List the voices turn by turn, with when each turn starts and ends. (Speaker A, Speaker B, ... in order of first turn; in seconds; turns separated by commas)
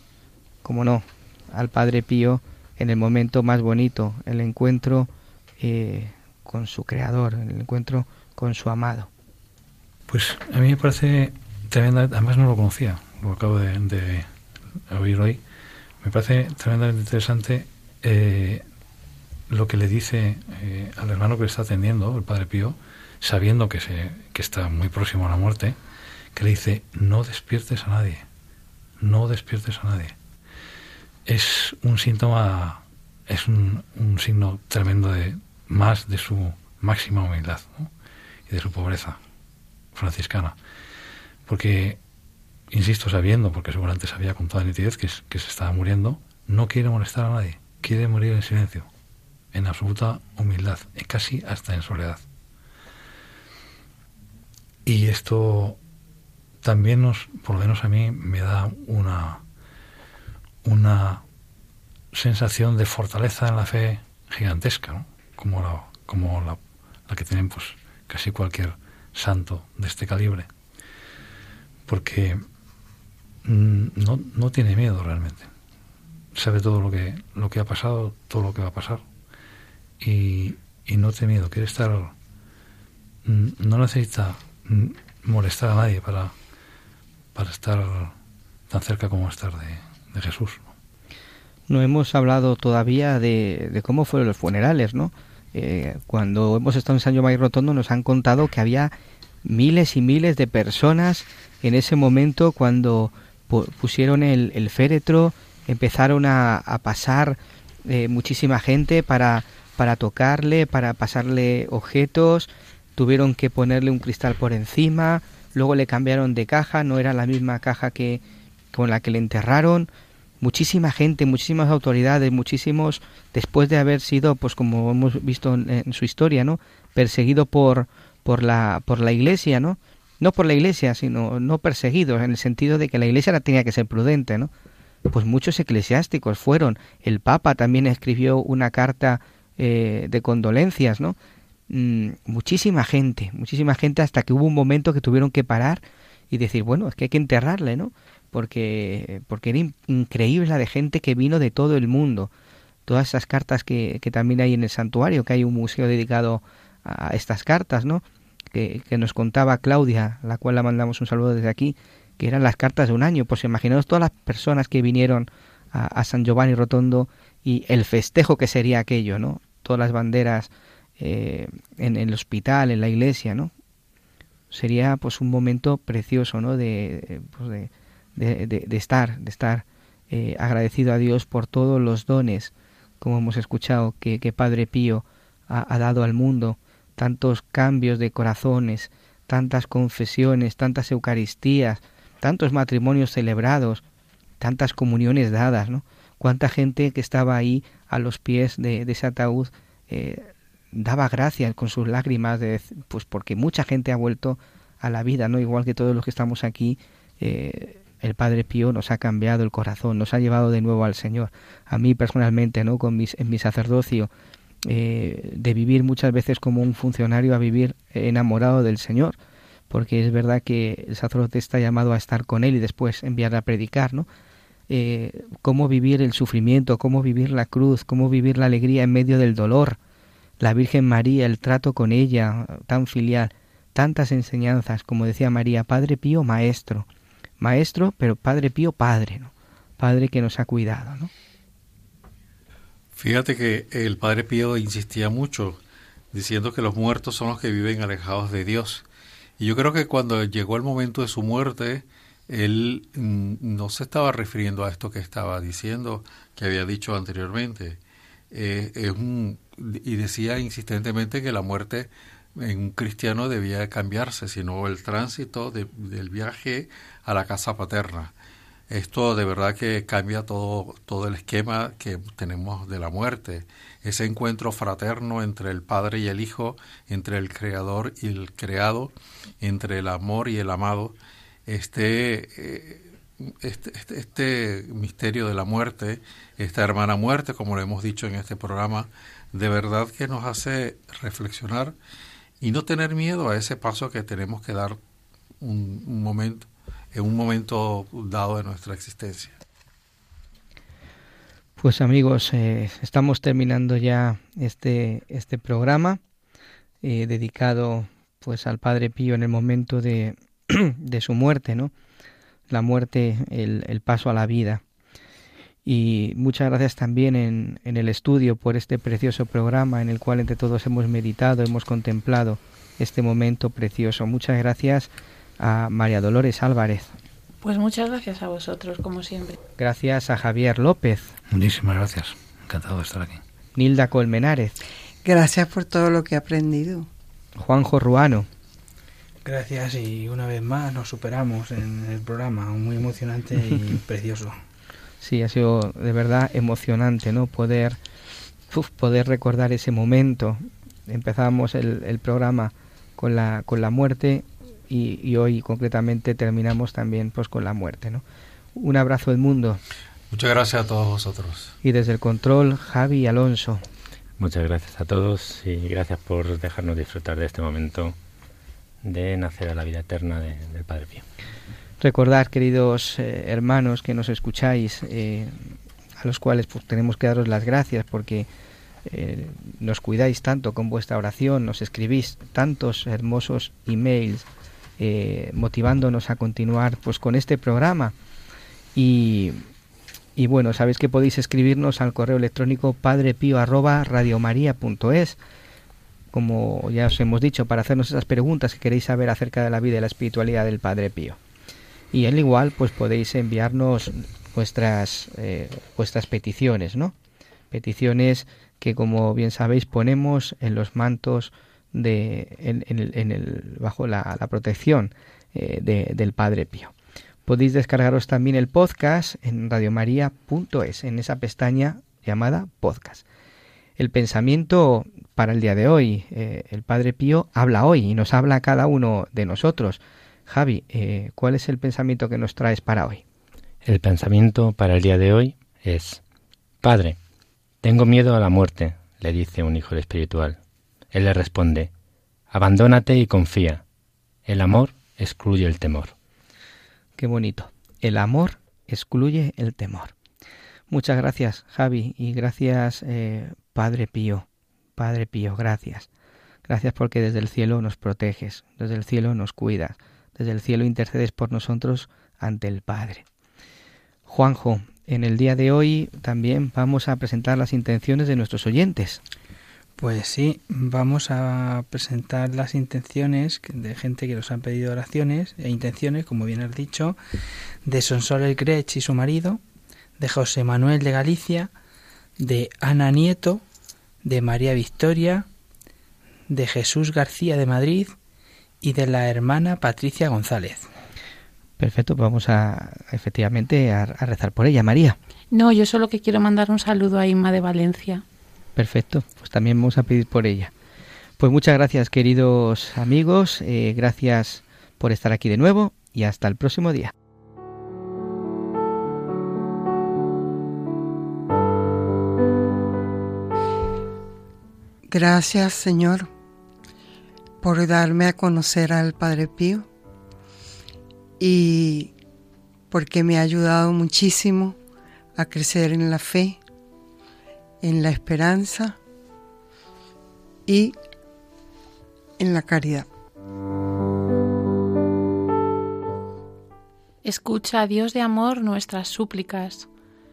Speaker A: 0.6-9.1, Speaker B: 10.1-14.3, Speaker B: 14.9-15.4, Speaker B: 16.0-18.6, Speaker B: 19.5-25.8, Speaker B: 26.4-28.2, Speaker B: 29.0-30.1, Speaker B: 31.3-37.9, Speaker B: 38.5-39.2, Speaker B: 39.9-40.6, Speaker B: 41.5-42.0, Speaker B: 42.7-48.9, Speaker B: 49.5-52.2, Speaker B: 54.9-55.8, Speaker B: 56.6-59.4, Speaker B: 60.6-61.2, Speaker B: 62.1-70.5, Speaker B: 71.9-72.4, Speaker B: 73.5-75.5, Speaker B: 76.3-79.0, Speaker B: 80.0-82.1, Speaker B: 83.2-86.3, Speaker B: 87.3-88.1, Speaker B: 88.7-90.7, Speaker A: 91.7-118.2, Speaker A: 118.7-119.9, Speaker A: 120.4-134.5, Speaker A: 135.1-141.2, Speaker A: 141.7-152.3, Speaker A: 152.9-173.5, Speaker A: 174.5-193.8, Speaker A: 194.4-214.1, Speaker A: 214.7-219.2, Speaker A: 219.7-224.1, Speaker A: 224.7-229.8, Speaker A: 230.4-236.9, Speaker A: 237.4-241.1, Speaker C: 243.0-245.6, Speaker C: 246.1-248.8, Speaker C: 249.4-257.8, Speaker C: 258.3-268.1, Speaker C: 268.7-291.8, Speaker C: 292.4-294.8, Speaker C: 295.4-299.4, Speaker A: 301.6-306.0, Speaker A: 306.8-311.7, Speaker A: 312.5-314.6, Speaker A: 315.6-326.9, Speaker D: 327.4-329.4, Speaker A: 329.6-331.1, Speaker B: 331.3-333.2, Speaker A: 333.6-334.6, Speaker E: 335.0-336.9, Speaker A: 337.4-338.3, Speaker F: 339.2-344.4, Speaker A: 345.0-347.8, Speaker A: 348.5-358.0, Speaker A: 358.6-359.6, Speaker C: 360.1-361.5, Speaker A: 361.6-363.6, Speaker G: 364.2-368.0, Speaker G: 368.9-371.1, Speaker A: 371.8-375.4, Speaker A: 376.0-378.3, Speaker A: 378.9-384.3, Speaker A: 384.8-387.9, Speaker A: 388.8-389.5, Speaker A: 390.2-395.2, Speaker A: 396.1-401.2, Speaker A: 401.9-406.9, Speaker A: 407.5-416.7, Speaker A: 417.3-423.1, Speaker A: 423.8-433.0, Speaker G: 433.6-436.0, Speaker G: 436.6-437.0, Speaker G: 437.6-440.4, Speaker G: 440.9-441.7, Speaker G: 442.3-443.6, Speaker G: 444.3-445.9, Speaker A: 447.0-449.9, Speaker A: 450.7-454.3, Speaker A: 454.8-455.9, Speaker A: 456.5-463.1, Speaker A: 464.1-469.0, Speaker F: 469.8-477.0, Speaker F: 477.6-479.4, Speaker F: 480.0-481.5, Speaker F: 482.2-483.4, Speaker F: 484.0-485.3, Speaker F: 486.3-488.0, Speaker F: 488.6-490.7, Speaker A: 491.6-495.0, Speaker D: 495.3-498.0, Speaker A: 498.6-500.5, Speaker A: 501.2-506.9, Speaker E: 514.9-516.1, Speaker E: 517.4-519.7, Speaker E: 521.2-521.9, Speaker E: 522.7-524.6, Speaker E: 525.2-526.4, Speaker E: 527.6-528.8, Speaker E: 530.5-530.8, Speaker E: 532.2-532.9, Speaker D: 537.0-539.7